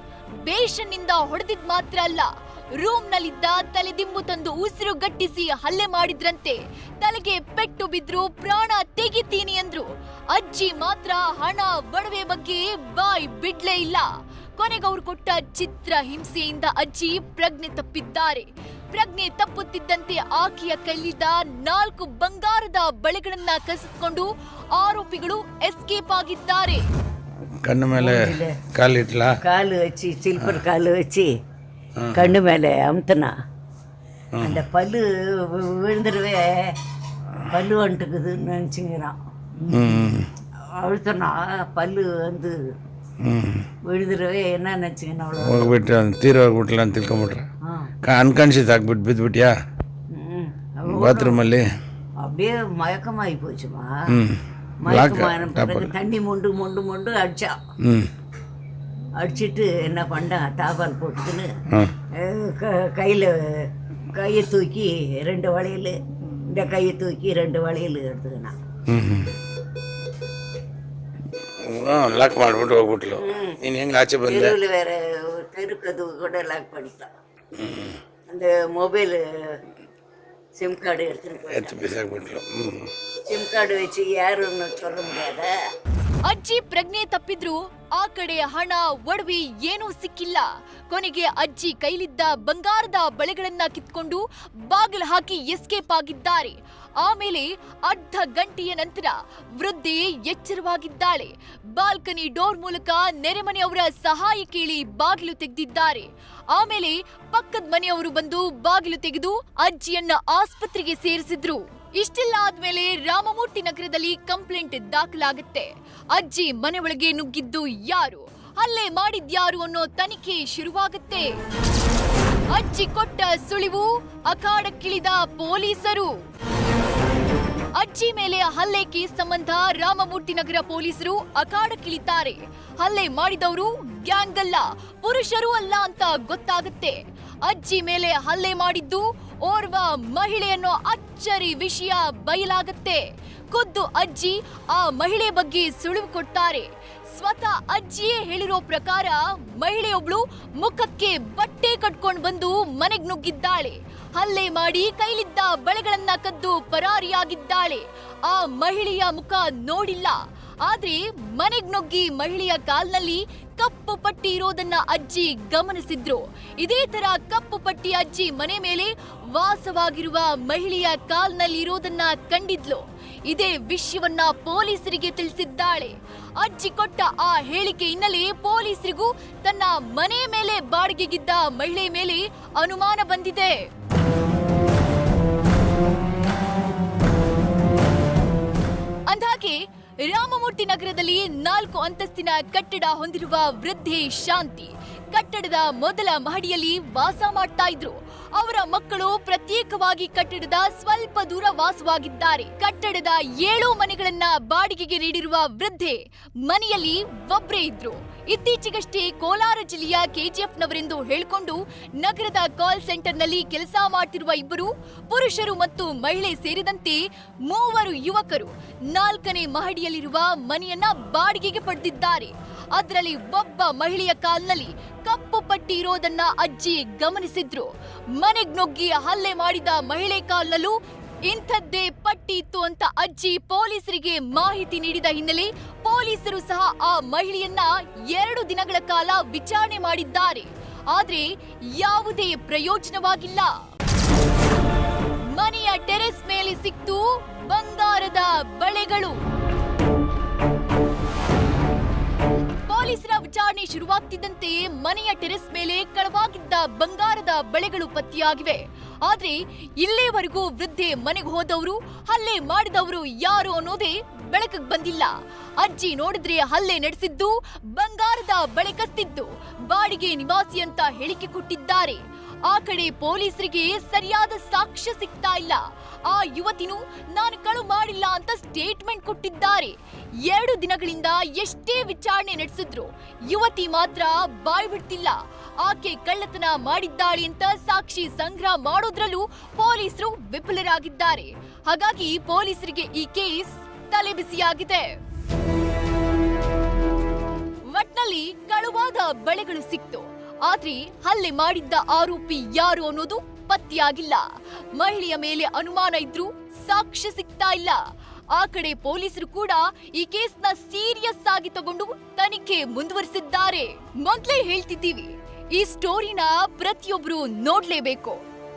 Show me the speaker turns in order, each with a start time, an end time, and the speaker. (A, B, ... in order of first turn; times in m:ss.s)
0:00.4-0:26.8 A
0:27.6-0:29.4 B
0:27.9-0:28.6 C
0:29.4-0:31.3 C
0:32.0-0:32.4 B
0:32.1-0:33.3 C
0:34.3-0:34.6 B
0:34.4-0:36.8 C
0:37.5-0:39.9 C
0:39.7-0:40.3 B
0:40.7-0:42.6 C
0:43.2-0:43.7 B
0:43.8-0:45.7 C
0:45.4-0:47.5 B
0:47.7-0:47.9 C
0:48.0-0:49.6 B
0:50.1-0:51.4 C
0:50.9-0:51.6 B
0:52.2-0:54.0 C
0:54.1-0:55.9 B
0:54.8-0:57.6 C
0:57.8-0:58.1 B
0:59.2-1:01.5 C
1:02.1-1:08.6 C
1:08.9-1:09.3 B
1:11.6-1:14.6 B
1:13.2-1:13.6 C
1:14.3-1:17.1 C
1:17.6-1:18.0 B
1:18.3-1:19.3 C
1:20.6-1:21.8 C
1:21.5-1:22.9 B
1:23.3-1:25.5 C
1:26.2-2:01.3 A
2:02.5-2:06.1 A
2:07.8-3:03.7 A
3:09.1-3:50.8 A
3:51.3-4:03.5 A
4:05.3-4:09.2 A
4:12.6-4:54.9 A
4:57.7-5:07.8 A
5:08.3-5:18.2 A